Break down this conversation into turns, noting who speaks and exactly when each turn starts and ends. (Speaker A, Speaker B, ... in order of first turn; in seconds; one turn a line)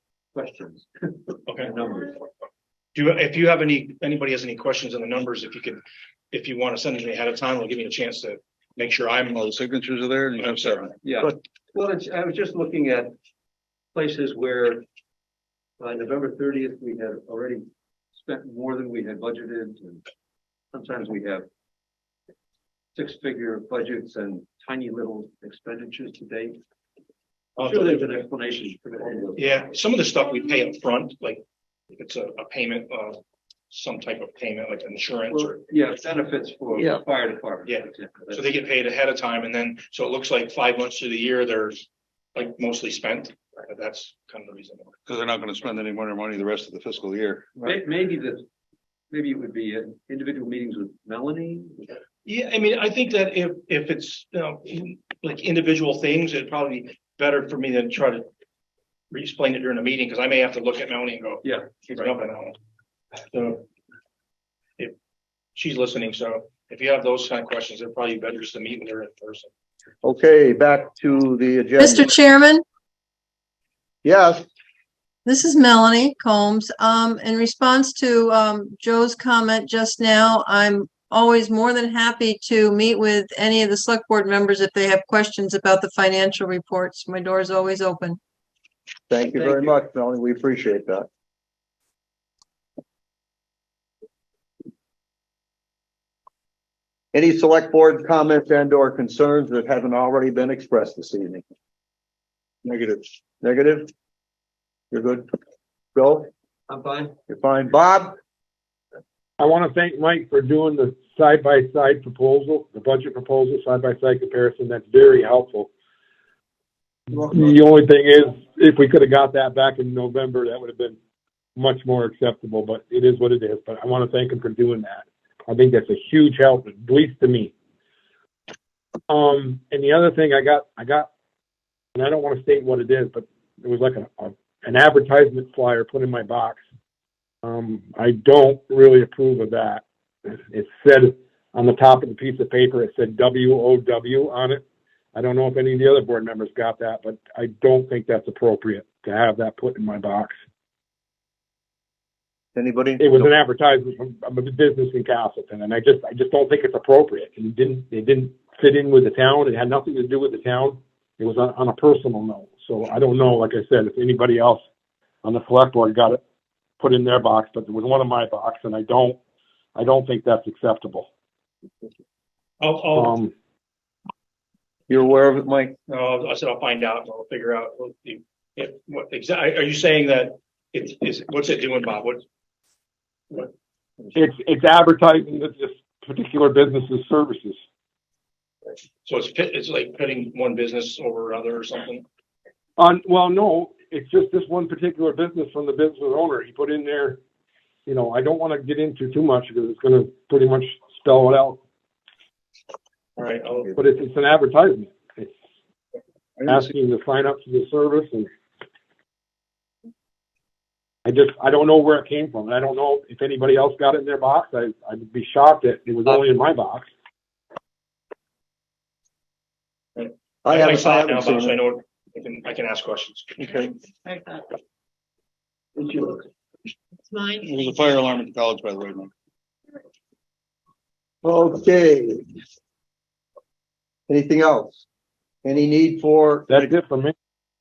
Speaker A: 0.3-2.2
Speaker B: 1.5-1.7
Speaker B: 3.0-5.8
Speaker B: 6.3-9.5
Speaker C: 9.4-10.9
Speaker B: 10.4-10.9
Speaker A: 11.0-13.1
Speaker A: 13.9-14.8
Speaker A: 15.8-20.0
Speaker A: 20.7-21.5
Speaker A: 22.9-26.6
Speaker A: 27.6-29.5
Speaker B: 27.6-28.1
Speaker B: 29.4-31.4
Speaker B: 31.9-33.2
Speaker B: 33.7-35.6
Speaker A: 35.3-38.5
Speaker B: 37.7-44.9
Speaker C: 45.1-47.5
Speaker A: 47.6-48.5
Speaker A: 49.1-52.0
Speaker B: 52.3-58.3
Speaker B: 59.1-62.6
Speaker A: 61.4-62.1
Speaker B: 63.3-63.6
Speaker B: 65.6-69.5
Speaker D: 70.0-72.1
Speaker E: 71.8-72.6
Speaker D: 74.0-74.5
Speaker E: 75.2-88.2
Speaker D: 89.1-91.1
Speaker A: 89.3-89.8
Speaker D: 97.1-101.4
Speaker C: 102.7-103.1
Speaker D: 103.4-103.9
Speaker D: 104.9-105.3
Speaker D: 106.0-106.3
Speaker A: 106.7-107.1
Speaker D: 107.3-108.2
Speaker F: 109.4-115.7
Speaker F: 117.1-121.0
Speaker F: 121.6-127.5
Speaker F: 129.1-131.1
Speaker F: 131.9-136.6
Speaker F: 137.4-150.3
Speaker D: 152.6-153.3
Speaker F: 153.0-164.6
Speaker F: 165.2-166.2
Speaker F: 166.8-169.2
Speaker F: 169.8-171.1
Speaker B: 172.6-173.2
Speaker F: 173.0-173.3
Speaker D: 174.9-175.8
Speaker B: 175.9-182.2
Speaker F: 184.2-187.6
Speaker B: 189.1-192.0
Speaker F: 192.8-197.2
Speaker F: 197.9-201.6
Speaker B: 203.2-203.7
Speaker F: 203.8-205.3
Speaker F: 206.5-208.3
Speaker F: 211.1-216.9
Speaker B: 220.0-223.5
Speaker D: 220.4-221.6
Speaker D: 223.4-223.7
Speaker D: 225.8-226.2
Speaker C: 227.4-229.1
Speaker D: 231.2-232.2
Speaker D: 234.1-234.8
Speaker D: 235.4-236.7
Speaker F: 236.5-237.1